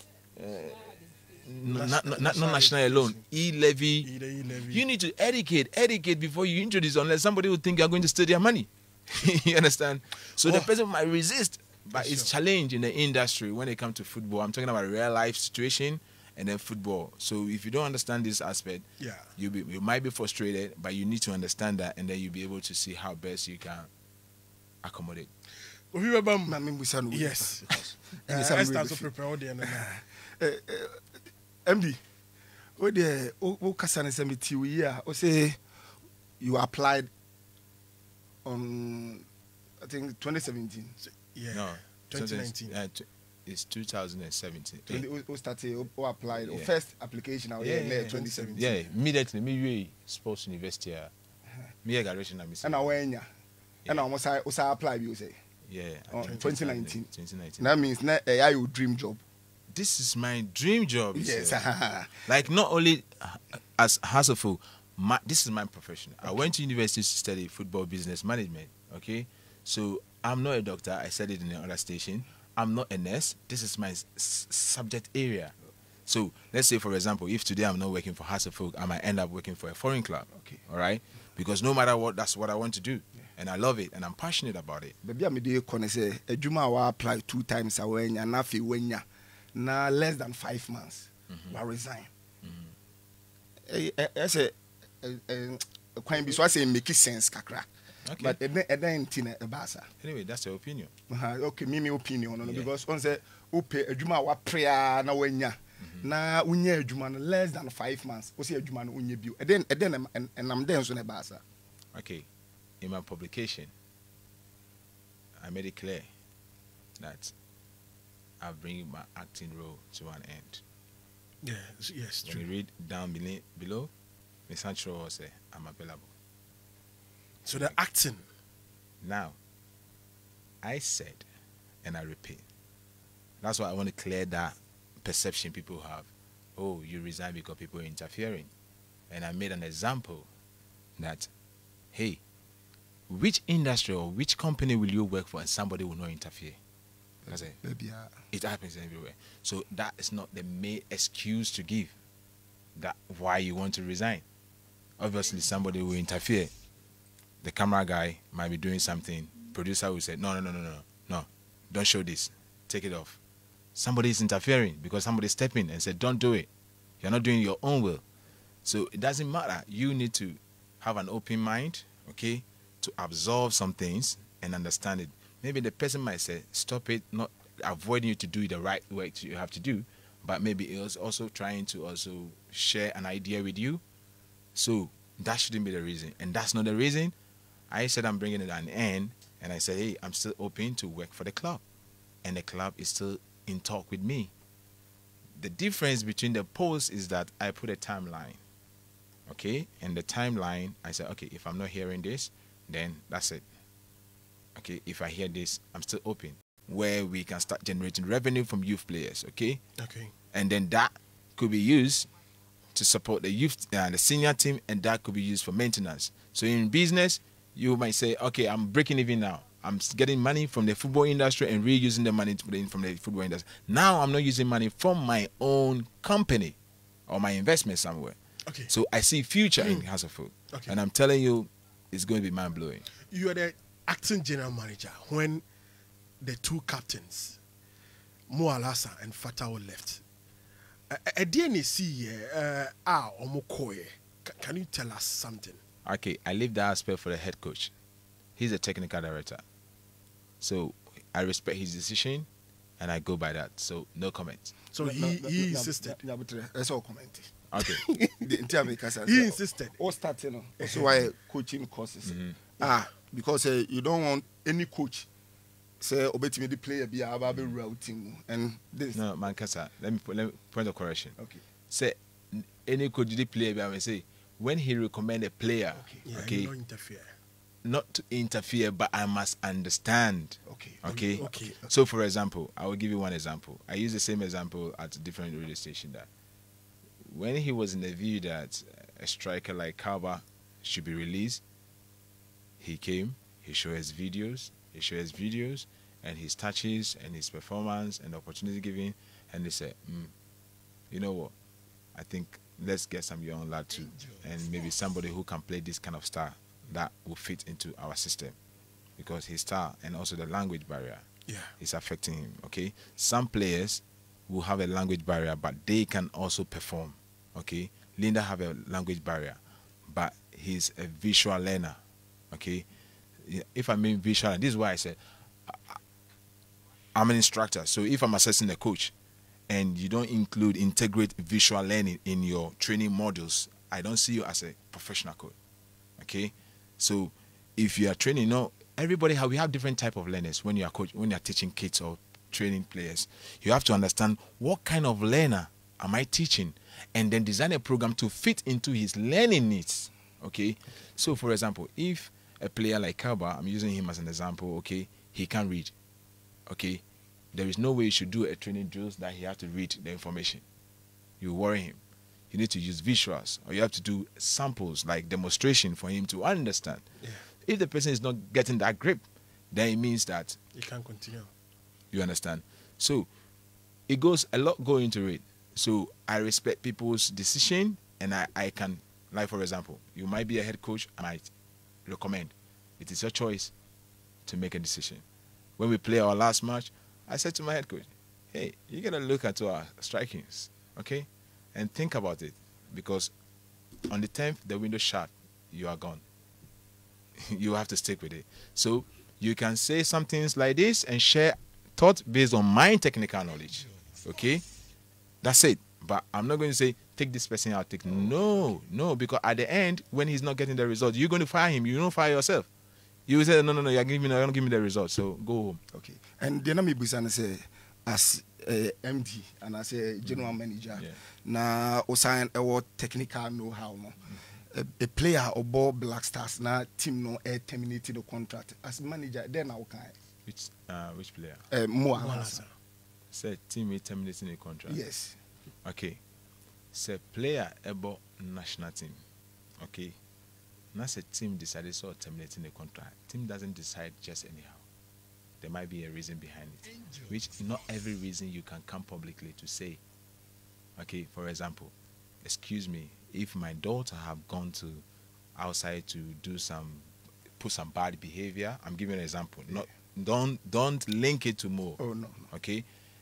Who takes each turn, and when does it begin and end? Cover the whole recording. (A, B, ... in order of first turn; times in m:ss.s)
0:00.4-0:04.1 A
0:01.7-0:03.2 B
0:04.0-0:04.8 B
0:04.7-0:18.8 A
0:10.4-0:10.7 B
0:11.9-0:12.3 B
0:19.0-0:19.3 B
0:19.4-0:23.9 A
0:24.8-0:25.3 A
0:25.9-0:26.6 B
0:26.4-0:27.6 C
0:27.1-0:29.9 B
0:28.2-0:29.1 C
0:29.6-0:31.1 C
0:31.6-0:32.0 C
0:32.8-0:35.6 C
0:36.4-0:37.1 C
0:38.4-0:39.2 C
0:39.8-0:41.0 C
0:41.0-0:42.7 B
0:41.5-0:45.0 A
0:44.9-0:48.7 C
0:46.4-0:46.7 A
0:47.6-0:51.1 A
0:47.8-0:48.7 B
0:51.8-0:52.9 A
0:52.6-0:53.3 C
0:53.9-0:55.4 C
0:55.7-0:57.7 A
0:56.1-0:59.2 C
0:59.7-1:01.6 A
1:01.1-1:02.3 C
1:02.2-1:15.5 A
1:16.0-1:25.0 A
1:20.3-1:20.6 C
1:25.0-1:32.1 C
1:31.3-1:31.5 A
1:32.4-1:32.7 A
1:33.7-1:39.9 C
1:38.0-1:38.4 A
1:40.0-1:40.9 A
1:41.1-1:51.4 C
1:42.4-1:42.7 A
1:51.9-1:52.3 A
1:52.8-1:53.7 A
1:55.4-1:56.1 A
1:57.0-1:57.3 A
1:58.4-2:00.6 A
2:01.4-2:02.4 B
2:02.2-2:03.9 A
2:04.5-2:06.1 A
2:07.4-2:08.2 B
2:09.0-2:09.4 A
2:10.6-2:11.2 A
2:11.8-2:12.4 A
2:13.4-2:18.5 A
2:19.1-2:20.3 A
2:21.0-2:21.3 A
2:21.9-2:22.2 A
2:23.1-2:26.6 A
2:27.2-2:28.1 C
2:27.3-2:27.6 A
2:28.3-2:31.9 A
2:32.8-2:34.2 A
2:35.0-2:36.5 A
2:37.4-2:43.2 A
2:43.7-2:46.5 A
2:47.0-2:48.0 A
2:48.6-3:03.8 A
3:04.5-3:07.1 A
3:07.7-3:11.6 A
3:12.2-3:14.3 A
3:15.4-3:18.4 A
3:19.3-3:23.4 A
3:24.5-3:29.6 A
3:29.8-3:30.1 B
3:30.3-3:32.1 A
3:32.7-3:48.2 A
3:48.7-3:52.8 A
3:49.6-3:49.8 B
3:53.1-3:55.4 B
3:56.2-3:57.4 B
3:58.3-4:00.0 B
4:00.9-4:05.6 B
4:05.8-4:07.7 A
4:08.4-4:09.4 A
4:10.4-4:12.3 A
4:12.8-4:14.5 A
4:14.7-4:16.0 B
4:14.8-4:17.3 C
4:17.5-4:17.8 A
4:17.6-4:18.2 B
4:18.2-4:25.1 C
4:19.0-4:19.8 B
4:20.6-4:21.0 B
4:22.0-4:22.4 A
4:25.8-4:29.0 C
4:28.9-4:31.1 A
4:31.7-4:36.5 A
4:36.0-4:37.1 B
4:37.6-4:46.1 A
4:40.5-4:41.5 C
4:40.8-4:41.6 B
4:47.0-4:51.4 A
4:52.6-5:00.1 A
5:00.9-5:01.3 A
5:01.9-5:08.3 A
5:09.0-5:11.0 A
5:11.3-5:11.5 B
5:11.6-5:21.8 A
5:22.3-5:22.6 A
5:23.2-5:25.8 A
5:26.9-5:28.9 A
5:29.5-5:35.3 A
5:36.0-5:55.7 A
5:56.5-6:00.4 A
6:01.2-6:01.8 A
6:02.3-6:06.8 A
6:07.4-6:10.4 A
6:10.5-6:11.3 B
6:11.9-6:13.1 A
6:13.9-6:21.3 A
6:21.8-6:23.5 A
6:24.2-6:25.0 A
6:25.6-6:33.1 A
6:33.9-6:36.0 A
6:37.2-6:44.4 A
6:45.2-6:52.5 A
6:53.1-6:55.6 A
6:55.7-7:09.9 C
7:00.0-7:01.0 A
7:10.2-7:11.4 A
7:11.5-7:12.4 C
7:11.9-7:12.5 B
7:13.1-7:14.8 A
7:14.7-7:15.2 C
7:15.6-7:16.0 A
7:16.7-7:19.0 A
7:19.6-7:20.0 A
7:20.7-7:24.6 A
7:25.4-7:29.8 A
7:30.8-7:31.7 A
7:32.2-7:34.8 A
7:35.4-7:36.9 A
7:37.4-7:41.8 A
7:41.8-7:42.3 C
7:42.3-7:42.6 A